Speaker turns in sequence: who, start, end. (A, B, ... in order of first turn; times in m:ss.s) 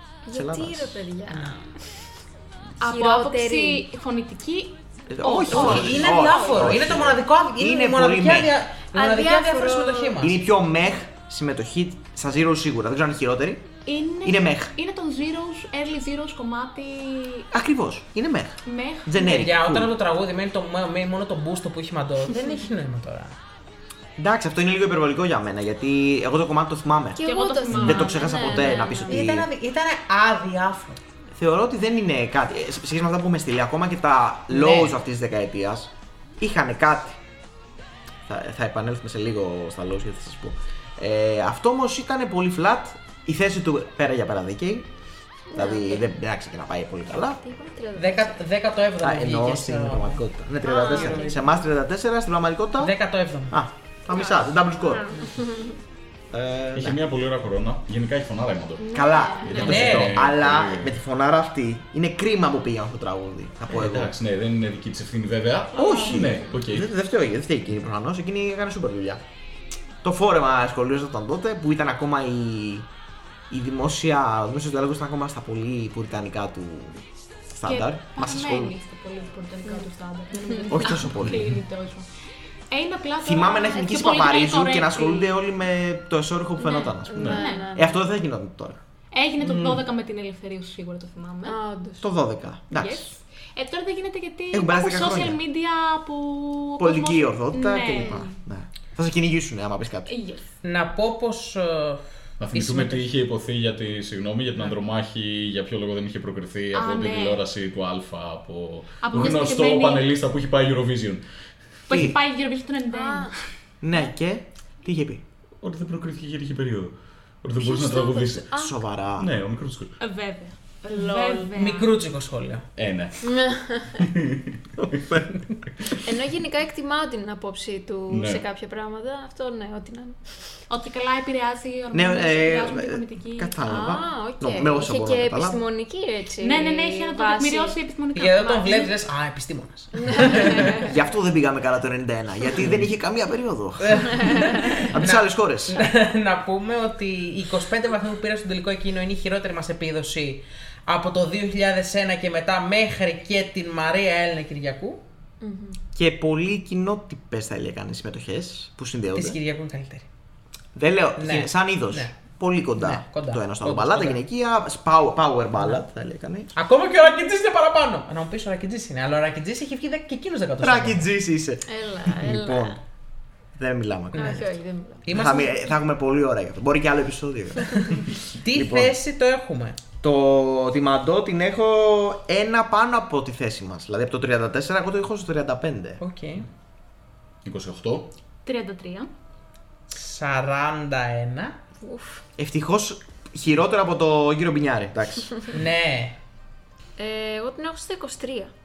0:00.2-0:01.7 A
0:00.3-0:01.0 B
0:02.8-0:06.3 C
0:02.8-0:03.8 A
0:05.1-0:08.6 B
0:05.5-0:06.7 A
0:05.5-0:10.4 D
0:08.9-0:10.2 A
0:10.2-0:13.7 B
0:13.8-0:17.5 C
0:14.2-0:14.7 B
0:17.5-0:19.9 B
0:18.6-0:19.4 C
0:19.2-0:23.3 D
0:24.2-0:29.5 B
0:27.2-0:29.3 A
0:27.2-0:28.9 C
0:29.1-0:31.0 D
0:31.3-0:37.2 B
0:34.5-0:34.9 D
0:38.3-0:44.9 B
0:45.5-0:46.1 A
0:45.5-0:47.4 B
0:47.3-0:48.4 A
0:48.0-0:50.2 D
0:49.0-0:52.9 B
0:50.6-0:51.6 A
0:50.9-0:51.3 D
0:52.8-0:53.6 D
0:53.5-0:55.1 B
0:54.1-0:55.8 A
0:56.3-0:57.0 B
0:56.7-1:00.9 E
0:58.8-0:59.8 A
0:58.9-1:04.1 B
0:59.6-1:00.2 D
1:03.7-1:06.9 E
1:05.7-1:09.2 B
1:06.2-1:06.5 A
1:10.0-1:12.9 B
1:13.5-1:18.7 B
1:17.6-1:22.0 C
1:20.7-1:21.6 B
1:22.7-1:25.3 C
1:23.2-1:28.8 B
1:26.6-1:27.9 A
1:27.2-1:27.4 E
1:27.2-1:27.7 C
1:29.1-1:31.6 C
1:29.4-1:29.8 B
1:31.4-1:32.0 A
1:32.0-1:33.1 B
1:32.7-1:38.2 C
1:34.5-1:35.4 B
1:36.8-1:40.1 B
1:38.0-1:38.3 A
1:40.1-1:40.5 C
1:40.6-1:43.1 D
1:42.4-1:51.2 E
1:46.7-1:47.4 C
1:49.0-1:50.1 C
1:51.9-1:53.4 C
1:51.9-1:52.2 B
1:52.9-1:53.3 A
1:53.8-1:55.2 B
1:55.6-1:58.5 E
1:57.6-1:58.8 A
1:58.5-1:59.3 B
1:59.2-2:00.0 E
2:00.0-2:01.9 C
2:00.9-2:01.5 A
2:01.5-2:02.6 D
2:02.8-2:03.4 E
2:03.2-2:04.0 A
2:04.0-2:05.0 E
2:04.8-2:05.3 B
2:06.0-2:10.2 A
2:08.1-2:08.4 E
2:10.7-2:13.5 C
2:11.9-2:15.6 B
2:13.6-2:17.8 A
2:16.4-2:18.9 C
2:18.1-2:20.7 D
2:20.0-2:20.5 A
2:20.8-2:25.9 B
2:23.8-2:35.0 D
2:35.4-2:35.8 A
2:35.9-2:39.4 B
2:39.1-2:40.1 D
2:40.7-2:46.5 B
2:41.2-2:42.1 D
2:42.8-2:44.2 D
2:46.5-2:51.1 D
2:50.6-2:52.8 B
2:51.7-2:52.8 A
2:53.5-2:54.4 B
2:54.1-2:54.5 D
2:54.1-2:55.1 A
2:55.0-2:55.5 D
2:55.1-2:58.9 B
2:58.4-2:59.8 D
3:00.0-3:06.0 B
3:06.0-3:06.4 D
3:07.4-3:08.1 E
3:08.4-3:09.1 C
3:09.9-3:11.6 D
3:11.8-3:12.2 A
3:12.4-3:15.3 B
3:15.5-3:16.2 D
3:17.0-3:18.5 A